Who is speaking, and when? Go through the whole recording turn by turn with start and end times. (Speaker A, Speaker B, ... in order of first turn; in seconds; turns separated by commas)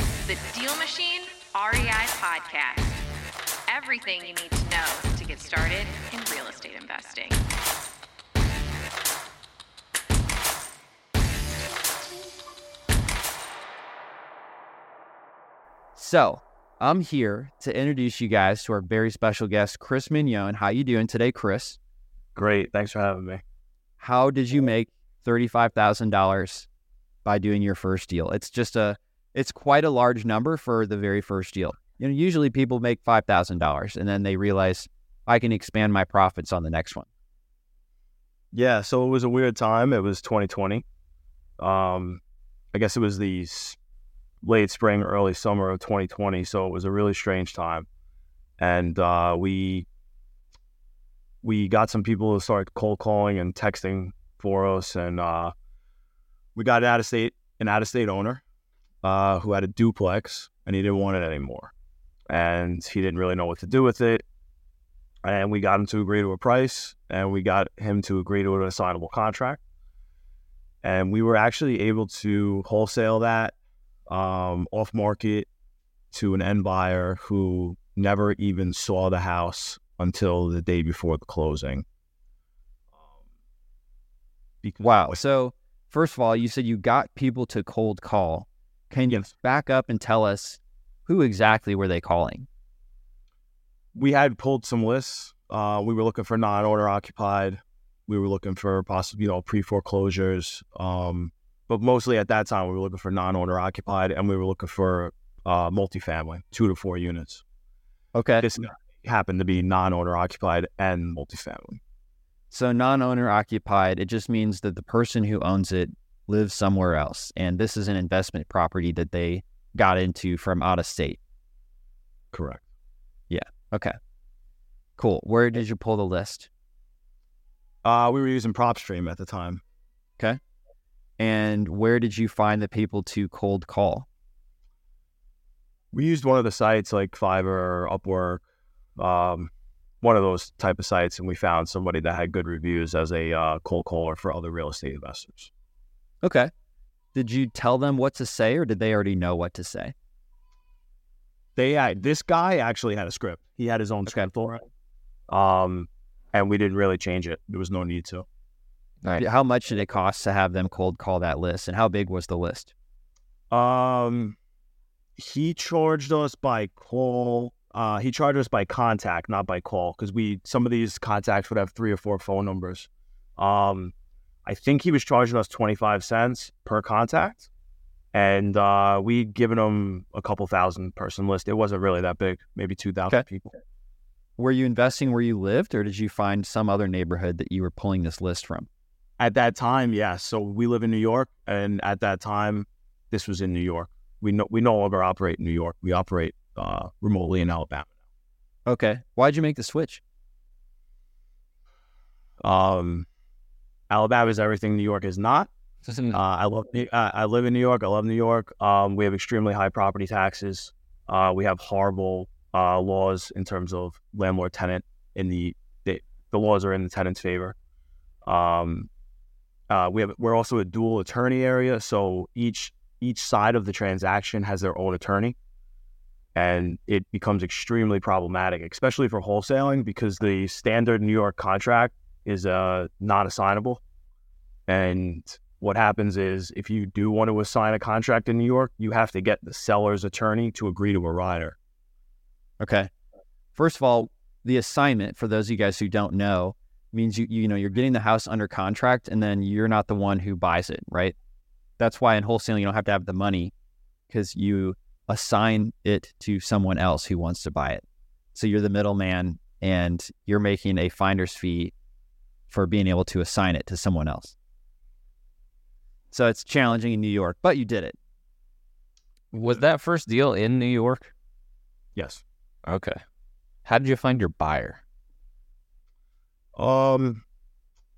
Speaker A: 0.2-3.0, Speaker A: 3.7-7.4, Speaker B: 16.0-21.8, Speaker C: 22.4-23.4, Speaker B: 24.0-26.7, Speaker B: 27.2-37.1, Speaker C: 38.5-40.8, Speaker C: 41.6-42.2, Speaker C: 42.7-43.8, Speaker C: 44.4-47.9, Speaker C: 48.6-49.9, Speaker C: 51.4-55.5, Speaker C: 56.5-58.4, Speaker C: 59.0-61.7, Speaker C: 62.3-64.2, Speaker C: 65.2-69.6, Speaker C: 70.8-73.5, Speaker C: 74.1-75.5, Speaker C: 76.1-81.8, Speaker C: 84.6-85.2, Speaker B: 84.8-92.5, Speaker C: 93.9-107.4, Speaker B: 108.2-108.5, Speaker C: 108.4-111.8, Speaker B: 112.5-121.2, Speaker C: 122.3-122.6, Speaker B: 123.3-124.0, Speaker B: 125.0-126.5, Speaker C: 127.8-129.6, Speaker B: 131.2-134.1, Speaker C: 135.9-138.4, Speaker C: 139.0-139.5, Speaker C: 140.0-145.5, Speaker B: 146.2-146.5, Speaker B: 147.2-149.9, Speaker C: 151.6-154.6, Speaker C: 155.3-158.3, Speaker B: 159.2-162.7, Speaker C: 163.5-164.4, Speaker C: 165.2-173.9, Speaker C: 174.4-177.5, Speaker C: 178.1-183.5, Speaker B: 184.4-188.7, Speaker C: 189.2-197.9, Speaker B: 198.7-200.0, Speaker C: 202.4-203.1, Speaker C: 203.9-205.5, Speaker D: 205.9-206.2, Speaker C: 206.1-217.6, Speaker C: 218.2-218.9, Speaker C: 219.7-225.4, Speaker C: 226.3-233.8, Speaker C: 234.7-241.6, Speaker B: 242.6-242.9, Speaker B: 243.6-251.2, Speaker B: 251.8-253.5, Speaker B: 254.1-257.8, Speaker B: 258.4-261.7, Speaker B: 262.5-264.4, Speaker B: 266.1-268.0, Speaker D: 269.3-271.1, Speaker C: 272.0-272.2, Speaker D: 272.7-273.0, Speaker D: 273.6-274.8, Speaker C: 276.6-277.2